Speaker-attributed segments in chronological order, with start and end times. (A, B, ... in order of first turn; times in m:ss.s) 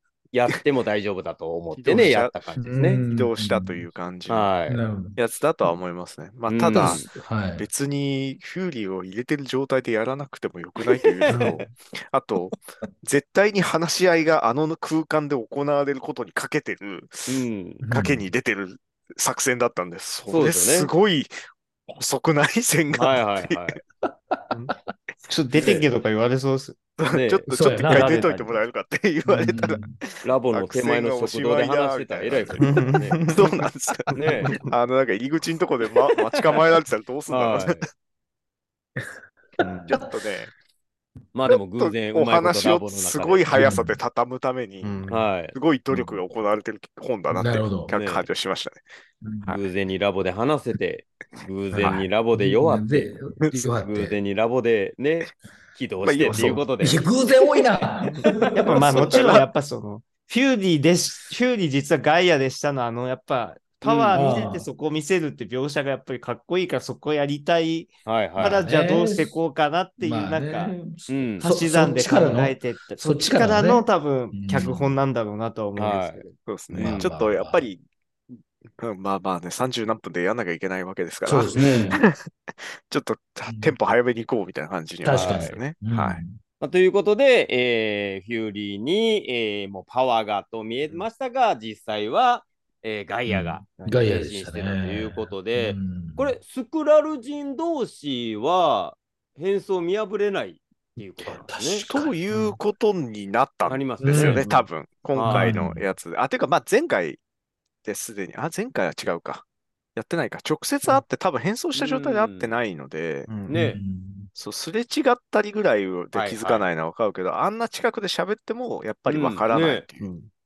0:00.3-0:03.0 A
0:01.8-0:04.5 B
0:02.6-0:03.9 C
0:04.3-0:04.8 A
0:04.7-0:05.2 C
0:05.2-0:21.3 B
0:06.5-0:07.1 A
0:06.7-0:07.6 C
0:11.3-0:11.7 C
0:17.3-0:17.8 A
0:17.8-0:18.3 C
0:20.3-0:20.9 A
0:21.9-0:23.8 B
0:22.9-0:23.8 A
0:24.3-0:24.7 C
0:25.3-0:26.8 D
0:25.6-0:25.9 A
0:27.0-0:37.8 B
0:27.1-0:27.5 A
0:27.5-0:28.2 C
0:27.9-0:28.6 D
0:29.3-0:30.0 C
0:30.2-0:33.2 A
0:32.6-0:33.6 D
0:34.1-0:34.7 D
0:34.1-0:34.5 A
0:37.3-0:37.9 A
0:39.9-0:40.5 B
0:41.3-0:43.8 A
0:41.8-0:48.8 B
0:43.5-0:44.0 C
0:44.8-0:45.2 D
0:45.1-0:45.5 A
0:47.3-0:47.9 C
0:47.9-0:48.3 A
0:49.2-0:49.5 C
0:49.5-0:53.1 A
0:51.7-0:54.1 C
0:53.8-0:57.1 A
0:56.0-0:56.7 B
0:56.3-0:58.8 C
0:57.3-0:57.6 B
0:58.5-1:10.7 D
0:58.7-0:59.4 B
1:03.8-1:04.3 A
1:04.1-1:04.7 C
1:08.0-1:08.7 A
1:08.4-1:09.4 C
1:10.0-1:15.0 C
1:11.1-1:11.5 A
1:11.4-1:16.3 D
1:15.8-1:17.1 A
1:16.4-1:17.8 B
1:16.7-1:17.7 C
1:18.4-1:22.1 B
1:21.2-1:22.0 C
1:21.5-1:22.0 A
1:22.7-1:26.2 B
1:23.5-1:23.7 C
1:25.0-1:26.4 C
1:25.1-1:25.6 A
1:26.6-1:41.9 A
1:33.3-1:36.3 C
1:33.8-1:34.1 D
1:41.2-1:42.6 C
1:41.9-1:47.2 B
1:43.6-1:44.6 A
1:44.0-1:44.4 C
1:45.1-1:45.5 A
1:45.2-1:45.8 C
1:47.8-1:53.3 B
1:51.7-1:52.5 A
1:53.3-1:53.6 D
1:53.5-1:53.8 A
1:53.5-1:54.3 C
1:54.4-2:00.0 B
1:56.1-1:56.7 A
1:59.1-1:59.8 A
2:00.0-2:00.3 D